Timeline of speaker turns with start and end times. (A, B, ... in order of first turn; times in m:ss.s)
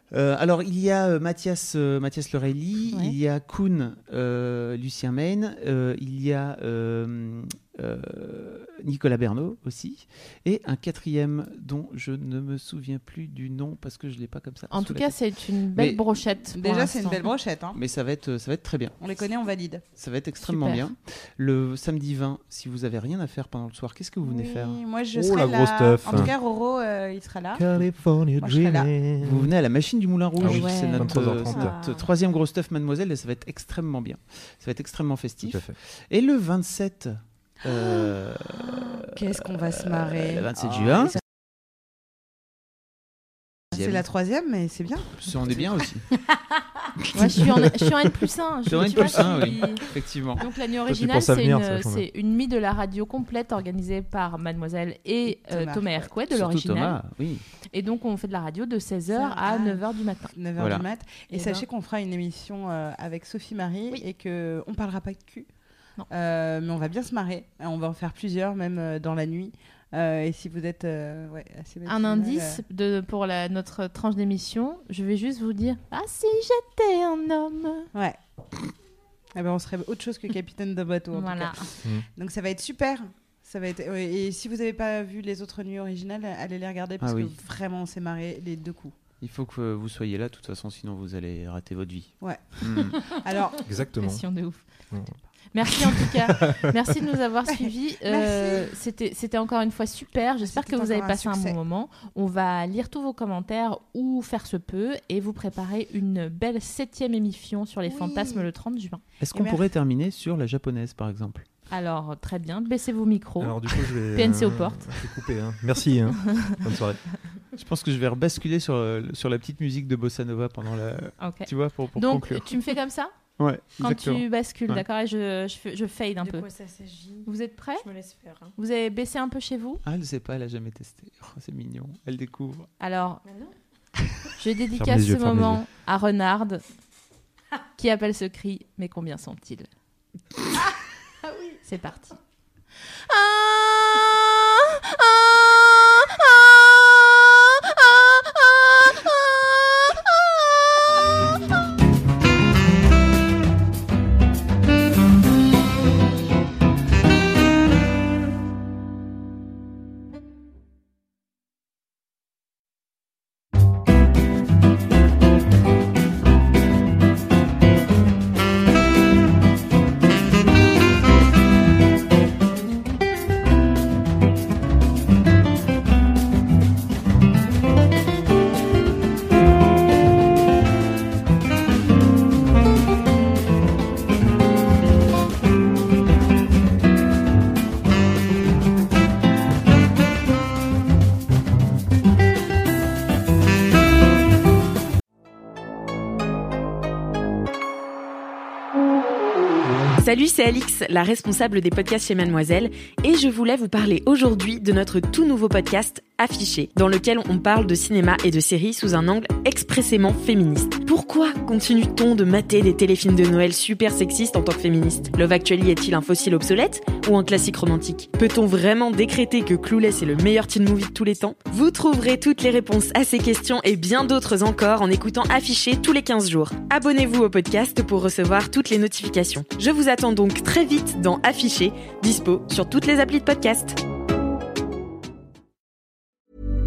0:00.1-0:16.2 A
0:02.9-0:03.2 B
0:14.7-0:17.2 B
0:16.5-0:17.8 C
0:17.7-0:19.0 A
0:19.0-0:19.8 C
0:20.0-0:24.8 A
0:20.4-0:20.9 B
0:24.2-0:27.7 C
0:25.2-0:26.3 D
0:27.6-0:29.5 D
0:28.4-0:28.9 C
0:29.2-0:41.2 A
0:30.4-0:31.8 D
0:30.4-0:31.2 B
0:30.6-0:32.1 E
0:35.4-0:35.8 D
0:37.7-0:41.2 C
0:43.7-0:45.9 C
0:43.7-0:44.0 A
0:45.2-0:46.1 A
0:47.1-0:57.0 B
0:48.7-0:50.4 A
0:50.9-0:52.1 D
0:55.3-0:56.1 C
0:56.3-0:57.4 A
0:57.7-1:00.3 B
0:59.1-1:05.5 C
1:00.6-1:00.9 A
1:01.3-1:01.6 E
1:06.1-1:12.6 C
1:11.9-1:17.9 B
1:17.9-1:18.2 C
1:19.4-1:29.0 C
1:21.1-1:21.7 B
1:27.0-1:27.4 A
1:29.2-1:33.2 A
1:32.2-1:33.7 C
1:33.7-1:34.2 D
1:34.0-1:34.6 B
1:35.5-1:49.0 B
1:35.8-1:36.8 D
1:37.6-1:38.7 C
1:40.4-1:41.6 C
1:47.9-1:48.5 C
1:49.2-1:51.4 A
1:49.3-1:49.6 C
1:51.7-1:54.8 B
1:53.4-1:57.0 D
1:57.6-2:02.7 A
2:01.2-2:03.1 B
2:03.4-2:04.2 A
2:03.8-2:06.5 B
2:06.2-2:08.5 E
2:07.2-2:07.9 B
2:08.6-2:09.8 B
2:09.8-2:12.7 A
2:12.8-2:13.2 B
2:13.2-2:13.5 E
2:14.4-2:16.6 B
2:14.7-2:15.6 D
2:17.8-2:19.7 B
2:21.2-2:21.6 E
2:21.6-2:22.2 B
2:23.0-2:30.4 B
3:20.0-3:53.8 F